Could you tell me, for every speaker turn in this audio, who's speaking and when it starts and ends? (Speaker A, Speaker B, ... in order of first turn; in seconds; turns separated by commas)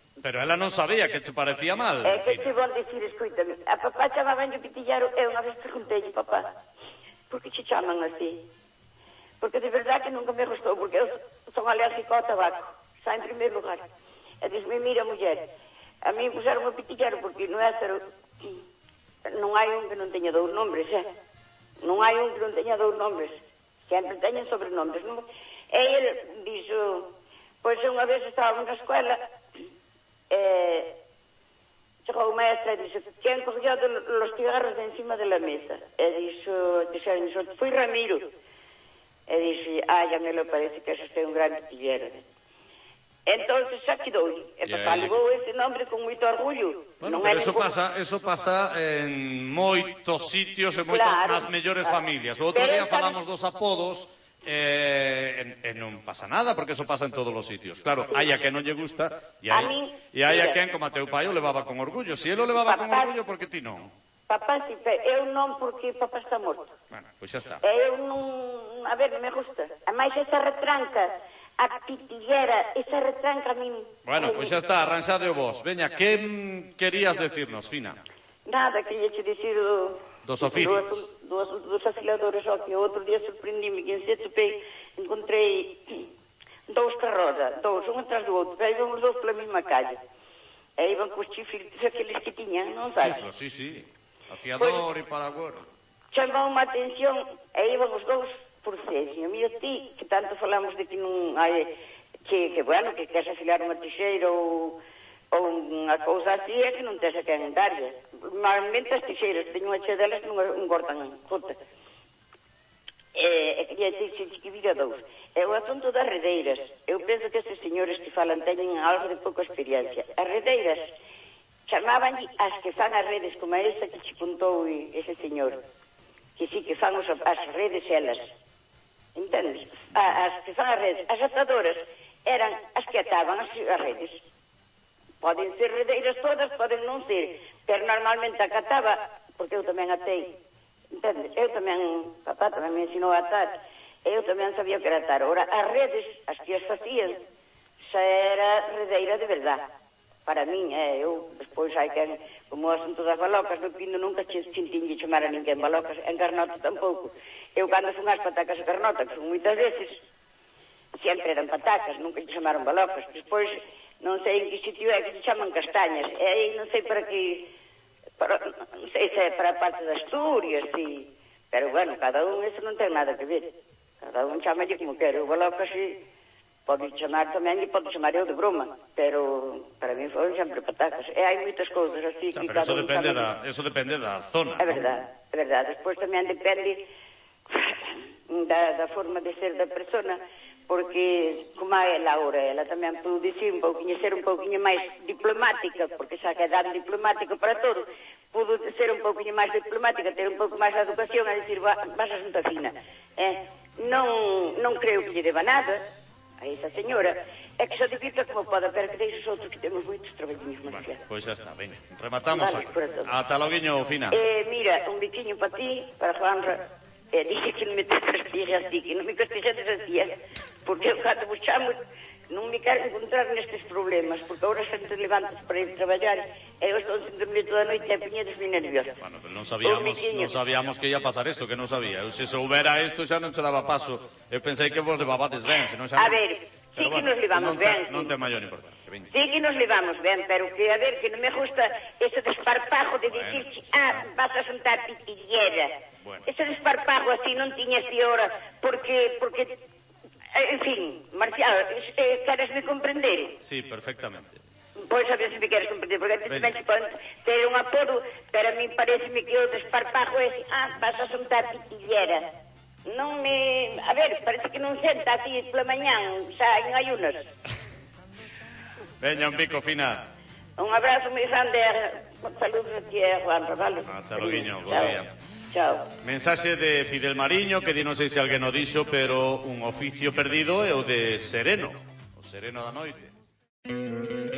Speaker A: 0.2-2.6, Speaker B: 2.0-6.5, Speaker B: 7.3-8.4, Speaker B: 9.4-13.9, Speaker B: 14.4-15.5, Speaker B: 16.0-18.6, Speaker B: 19.3-21.1, Speaker B: 21.8-27.1, Speaker B: 27.6-29.2, Speaker B: 30.3-30.9, Speaker B: 32.0-38.3, Speaker B: 39.3-42.2, Speaker B: 43.3-47.7, Speaker A: 44.6-45.2, Speaker A: 47.0-63.9, Speaker B: 50.9-53.2, Speaker B: 59.5-60.6, Speaker B: 62.5-63.1, Speaker B: 64.3-66.8, Speaker A: 66.9-67.6, Speaker B: 67.6-74.6, Speaker A: 74.0-78.0, Speaker B: 78.5-86.1, Speaker A: 80.2-81.0, Speaker B: 86.7-90.0, Speaker B: 90.8-93.2, Speaker A: 92.9-95.7, Speaker B: 94.6-94.9, Speaker B: 96.1-101.7, Speaker B: 102.3-104.8, Speaker B: 105.3-111.6, Speaker B: 113.1-120.9, Speaker B: 121.7-125.6, Speaker B: 126.4-128.3, Speaker B: 129.2-134.2, Speaker B: 135.2-140.4, Speaker B: 140.9-147.2, Speaker B: 147.9-149.7, Speaker B: 150.3-160.0, Speaker B: 160.9-167.5, Speaker B: 168.2-176.0, Speaker B: 176.7-183.3, Speaker A: 182.3-185.0, Speaker B: 184.6-186.8, Speaker B: 187.5-205.8, Speaker B: 206.4-211.0, Speaker A: 211.0-214.2, Speaker B: 212.3-213.1, Speaker B: 214.1-221.8, Speaker B: 222.3-229.0, Speaker A: 229.0-236.2, Speaker B: 229.6-230.3, Speaker B: 235.9-238.1, Speaker A: 236.8-239.1, Speaker B: 239.1-249.5, Speaker A: 243.1-244.1, Speaker A: 246.0-246.3, Speaker B: 250.3-253.4, Speaker A: 253.4-254.4, Speaker B: 254.9-262.2, Speaker A: 256.3-256.6, Speaker B: 262.9-267.3, Speaker A: 269.0-270.1, Speaker B: 270.6-275.0, Speaker A: 273.9-275.1, Speaker B: 275.5-275.9, Speaker A: 276.0-283.1